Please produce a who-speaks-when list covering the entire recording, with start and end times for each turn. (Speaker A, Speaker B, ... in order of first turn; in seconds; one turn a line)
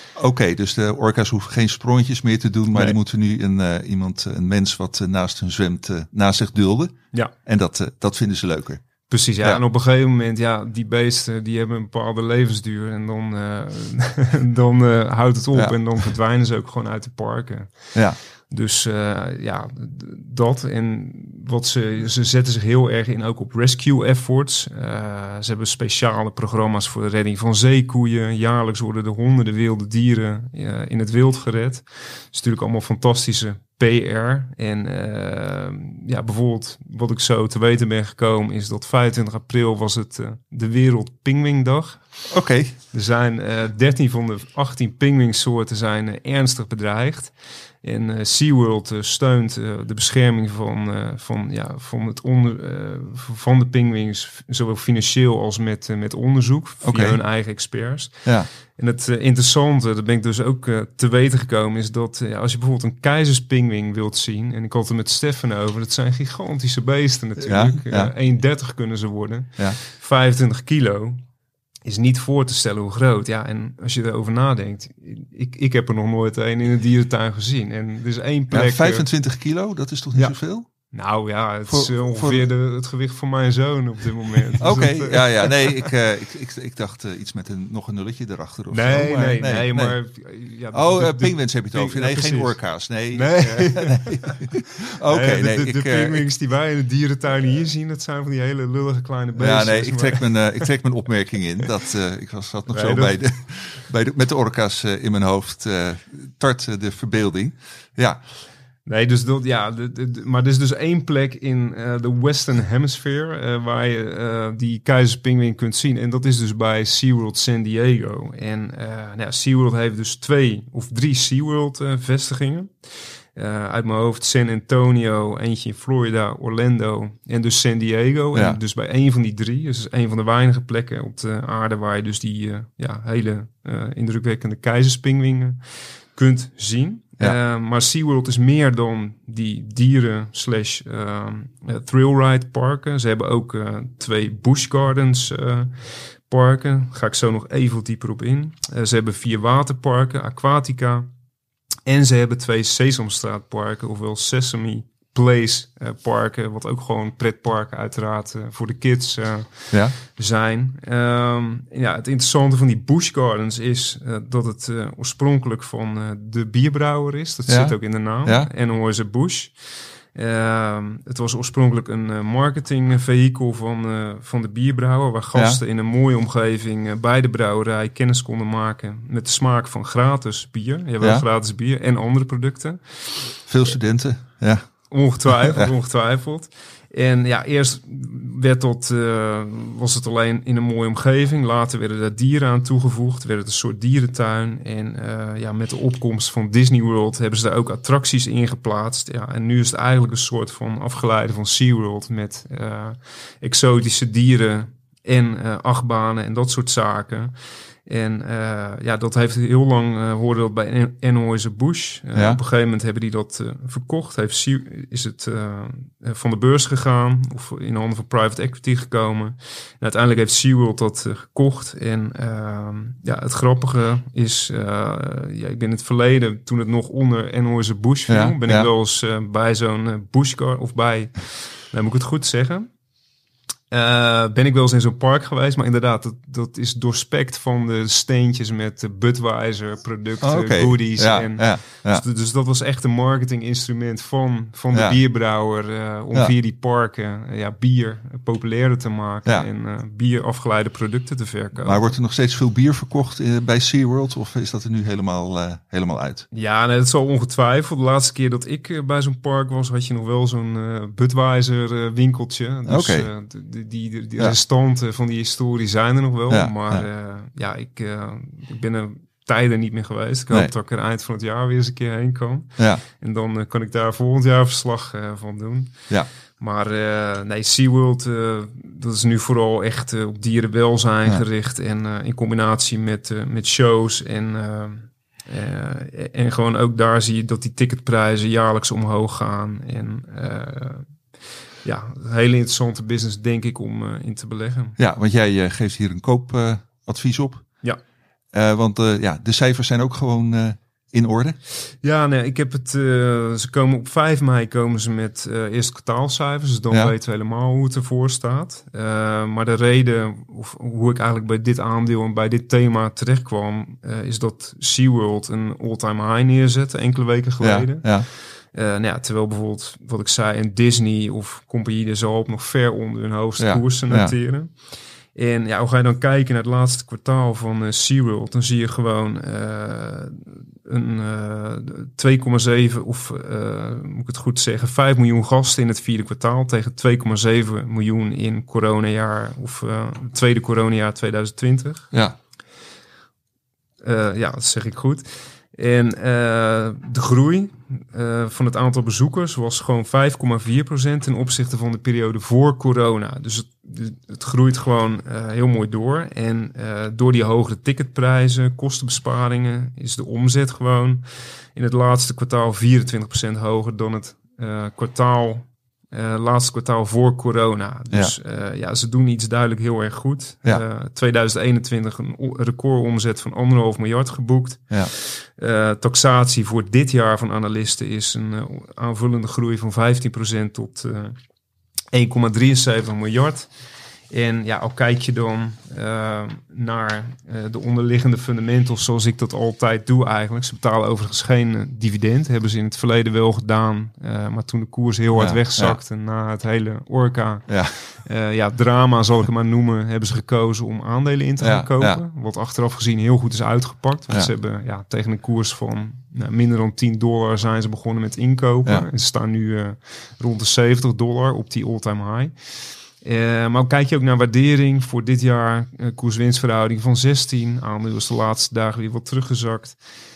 Speaker A: 0.2-9.6
Speaker B: 9.1-42.4
Speaker A: 15.5-15.8
Speaker A: 42.3-42.8
Speaker B: 42.9-71.2
Speaker A: 56.8-57.2
Speaker A: 67.4-68.1
Speaker B: 71.8-79.3
Speaker A: 78.5-80.7
Speaker B: 80.9-85.9
Speaker A: 81.7-82.5
Speaker A: 84.6-90.0
Speaker B: 88.7-94.4
Speaker A: 90.7-96.3
Speaker B: 95.0-100.5
Speaker A: 99.4-108.2
Speaker B: 102.7-103.2
Speaker B: 108.9-151.1
Speaker A: 128.3-128.6
Speaker B: 151.9-169.6
Speaker A: 159.7-160.0
Speaker A: 167.5-168.5
Speaker B: 170.1-183.4
Speaker A: 175.3-175.6
Speaker A: 181.0-181.2
Speaker A: 183.5-185.7
Speaker B: 184.9-232.7
Speaker A: 212.1-212.4
Speaker A: 228.1-228.7
Speaker B: 233.7-251.9
Speaker A: 240.2-242.0
Speaker A: 244.7-245.0
Speaker A: 251.6-256.3
Speaker B: 256.3-290.9
Speaker A: 262.7-263.1
Speaker A: 266.3-266.9
Speaker A: 272.6-272.8
Speaker B: 291.6-294.8
Speaker A: 294.8-297.6
Speaker A: 298.3-301.4
Speaker B: 301.8-341.9
Speaker A: 317.4-318.1
Speaker A: 323.4-324.1
Speaker B: 343.8-381.2
Speaker B: 381.9-383.5
Speaker B: 384.1-419.8
Speaker A: 395.1-395.8
Speaker A: 397.5-397.8
Speaker A: 401.4-402.0